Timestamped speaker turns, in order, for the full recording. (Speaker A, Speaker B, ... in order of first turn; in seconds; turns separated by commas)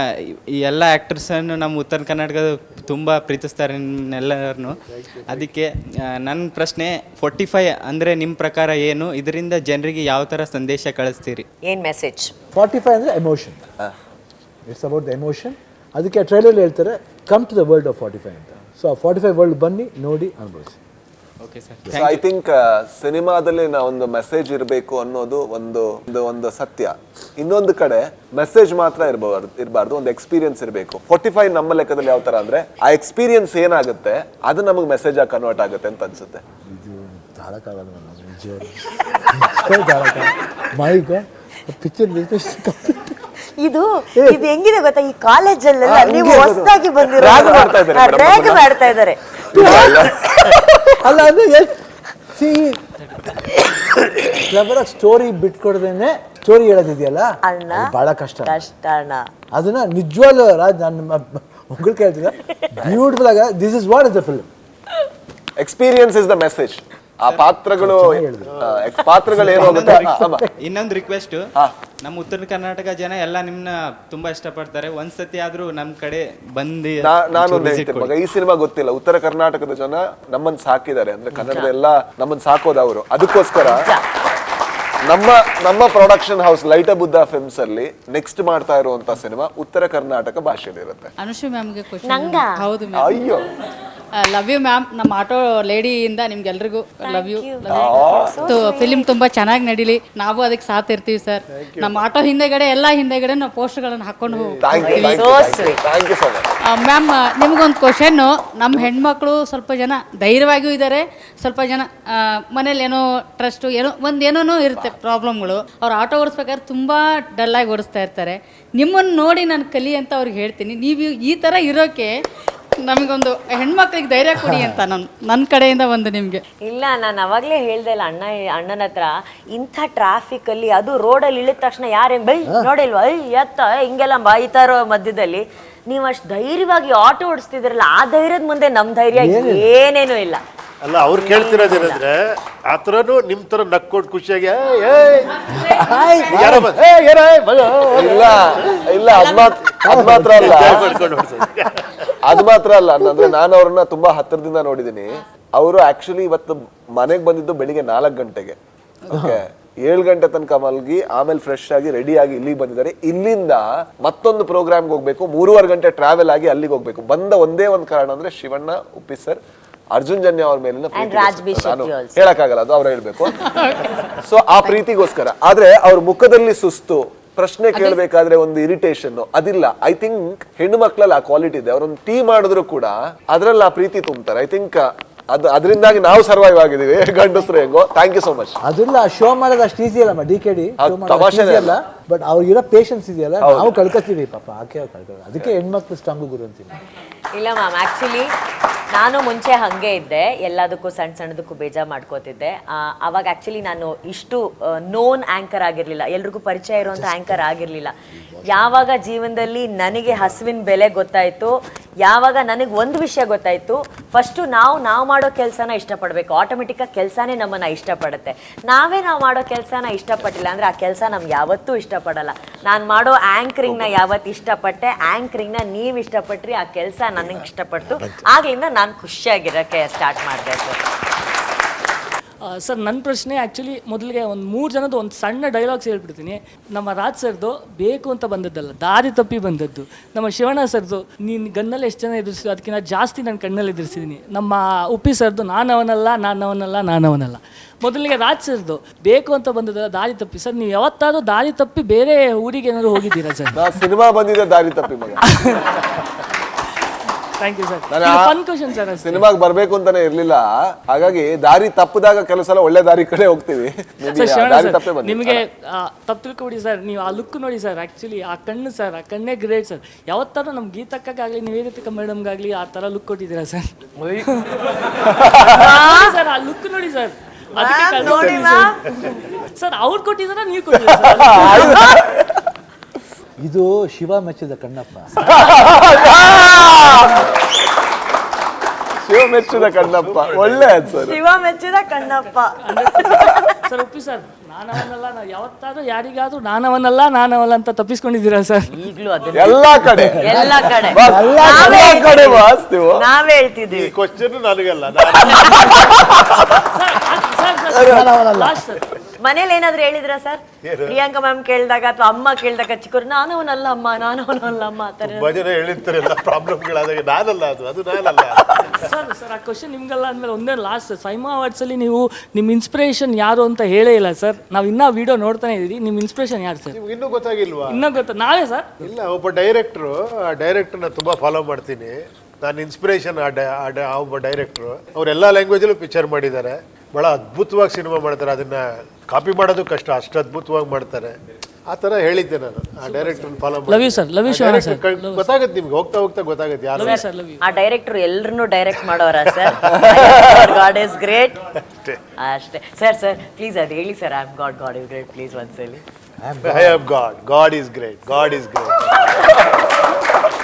Speaker A: 0.6-5.7, Speaker B: 5.0-5.4, Speaker A: 6.2-11.4, Speaker C: 11.6-12.3, Speaker D: 12.5-13.6, Speaker D: 14.7-20.8, Speaker A: 21.4-22.2, Speaker E: 21.9-36.4, Speaker D: 36.7-43.2, Speaker C: 43.5-49.3, Speaker D: 44.2-44.5, Speaker E: 45.9-48.8, Speaker D: 49.5-50.2, Speaker E: 49.5-50.1, Speaker D: 51.0-51.8, Speaker D: 52.3-52.8, Speaker D: 54.4-58.7, Speaker C: 57.5-59.2, Speaker D: 59.5-64.5, Speaker E: 65.6-70.4, Speaker D: 67.8-68.7, Speaker D: 69.3-70.5, Speaker A: 69.5-71.5, Speaker A: 72.0-78.1, Speaker E: 77.0-83.9, Speaker C: 81.4-81.7, Speaker C: 83.6-84.0, Speaker E: 85.1-91.1, Speaker F: 91.2-93.0, Speaker C: 92.0-92.6, Speaker E: 92.9-93.5, Speaker F: 94.2-105.1, Speaker C: 97.0-99.1, Speaker E: 97.7-98.4, Speaker B: 101.5-101.9, Speaker B: 104.3-104.8, Speaker E: 104.6-106.5, Speaker C: 104.8-105.8, Speaker F: 106.7-122.2, Speaker F: 122.8-126.4, Speaker C: 126.7-140.4, Speaker D: 139.1-139.7, Speaker B: 140.8-145.4, Speaker C: 141.1-142.0, Speaker D: 145.6-146.7, Speaker B: 146.3-148.7, Speaker E: 148.0-150.9, Speaker D: 149.8-150.8, Speaker B: 150.3-151.9, Speaker E: 152.2-158.6, Speaker D: 159.1-159.4, Speaker E: 159.1-169.4, Speaker E: 169.9-173.6, Speaker C: 170.9-172.3, Speaker E: 174.2-188.6, Speaker D: 188.6-196.8, Speaker E: 190.8-191.8, Speaker E: 193.4-193.8, Speaker C: 197.3-198.3, Speaker C: 198.9-207.9, Speaker D: 206.8-207.5, Speaker D: 208.1-208.9, Speaker C: 208.5-211.5, Speaker C: 212.0-230.8, Speaker G: 232.5-253.6, Speaker E: 253.5-255.2, Speaker G: 257.4-259.3, Speaker E: 257.9-258.3, Speaker E: 259.0-265.4, Speaker G: 264.1-274.5, Speaker E: 275.1-275.6, Speaker G: 275.5-281.8, Speaker C: 275.6-276.1, Speaker C: 277.6-278.8, Speaker B: 278.1-278.4, Speaker E: 280.9-282.3, Speaker C: 281.7-281.9, Speaker D: 283.4-285.1, Speaker E: 285.2-287.3, Speaker E: 289.0-291.2, Speaker B: 289.5-290.7, Speaker C: 290.9-293.6, Speaker G: 292.2-298.7, Speaker C: 298.7-303.9, Speaker E: 299.3-300.2, Speaker D: 299.9-301.7, Speaker G: 300.3-300.6, Speaker E: 300.9-303.1, Speaker B: 303.7-305.6, Speaker C: 305.2-305.6, Speaker E: 305.6-306.5, Speaker G: 306.5-308.9, Speaker D: 307.8-308.6, Speaker C: 309.2-315.4, Speaker B: 310.6-311.0, Speaker B: 315.0-318.4, Speaker G: 318.8-326.8, Speaker B: 326.7-327.8, Speaker G: 327.7-328.8, Speaker B: 328.8-341.1, Speaker B: 341.7-347.0, Speaker G: 342.8-345.3, Speaker G: 346.8-347.4, Speaker C: 346.8-351.4, Speaker B: 349.4-350.0, Speaker C: 352.2-355.8, Speaker D: 356.2-356.8, Speaker B: 356.4-358.9